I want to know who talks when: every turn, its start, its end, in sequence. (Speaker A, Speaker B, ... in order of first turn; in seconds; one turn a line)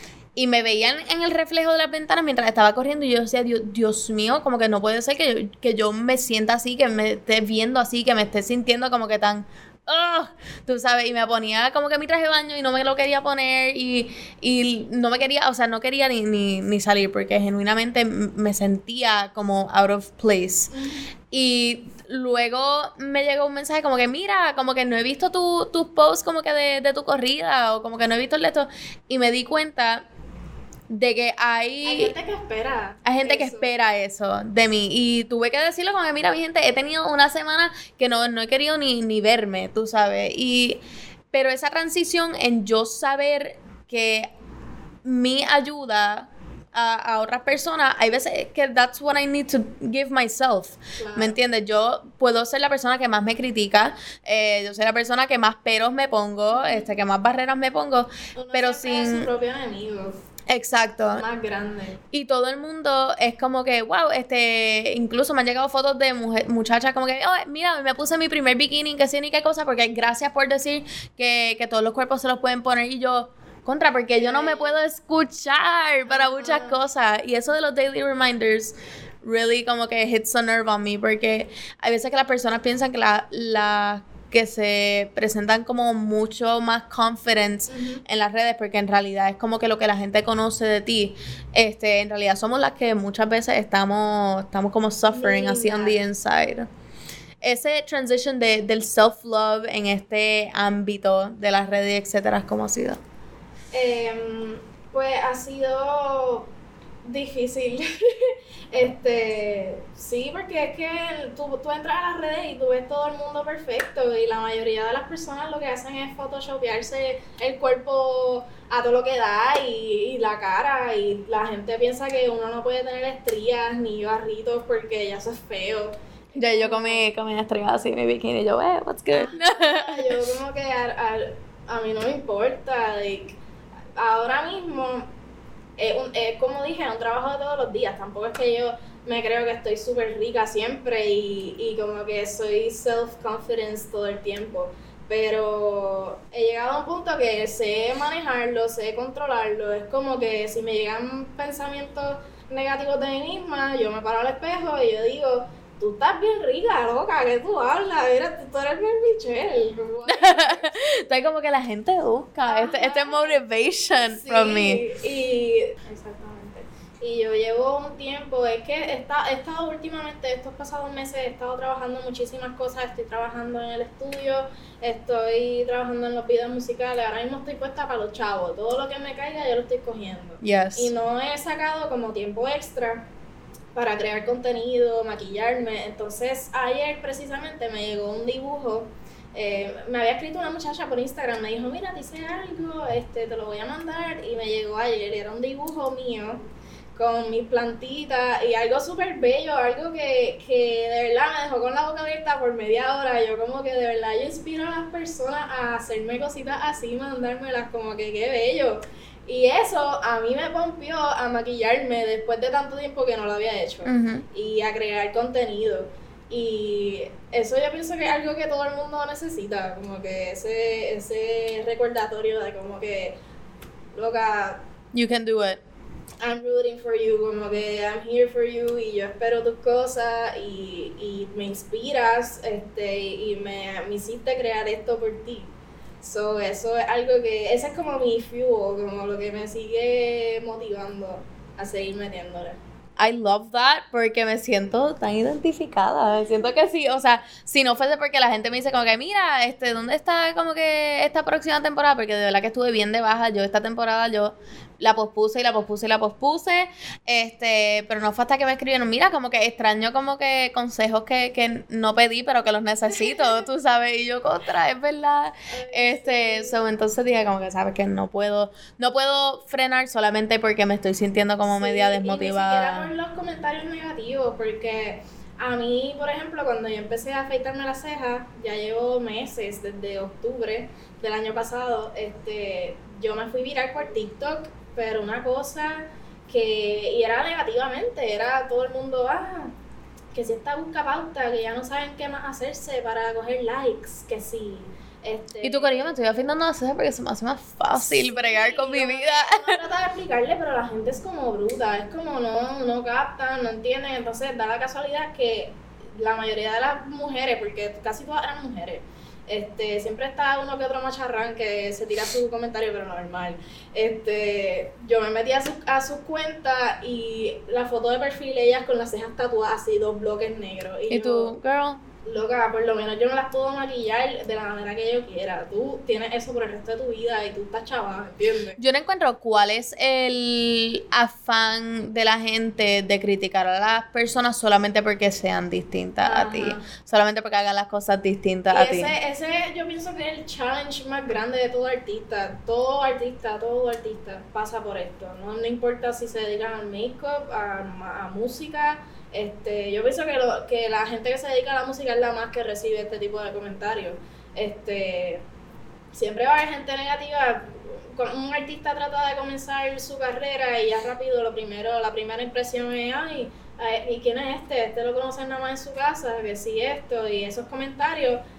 Speaker A: 0.3-20.7
Speaker B: 20.7-21.1
Speaker A: 21.3-30.1
Speaker A: 30.9-32.1
Speaker B: 31.8-33.7
Speaker A: 33.0-40.8
Speaker A: 41.3-44.3
Speaker A: 45.0-59.3
Speaker B: 51.0-51.4
Speaker B: 56.5-56.9
Speaker B: 58.4-60.2
Speaker A: 60.5-61.2
Speaker B: 61.1-62.0
Speaker A: 62.1-96.7
Speaker B: 74.1-74.8
Speaker B: 76.0-76.8
Speaker B: 87.7-88.0
Speaker B: 95.1-96.0
Speaker A: 97.4-103.0
Speaker B: 103.7-106.5
Speaker B: 107.0-127.1
Speaker A: 126.4-130.2
Speaker B: 129.1-133.4
Speaker B: 133.9-135.1
Speaker B: 135.8-160.7
Speaker A: 160.1-164.8
Speaker B: 162.5-163.4
Speaker B: 164.0-183.1
Speaker A: 180.4-180.9
Speaker B: 183.7-223.2
Speaker A: 213.8-214.2
Speaker B: 223.9-224.6
Speaker A: 224.9-225.6
Speaker B: 226.2-242.6
Speaker A: 243.0-272.9
Speaker B: 265.5-266.6
Speaker B: 271.4-289.5
Speaker B: 290.1-295.9
Speaker A: 295.4-299.6
Speaker B: 297.7-321.4
Speaker A: 320.9-321.8
Speaker B: 322.0-328.6
Speaker A: 328.6-338.9
Speaker B: 336.0-336.6
Speaker B: 338.5-355.2
Speaker B: 355.9-368.2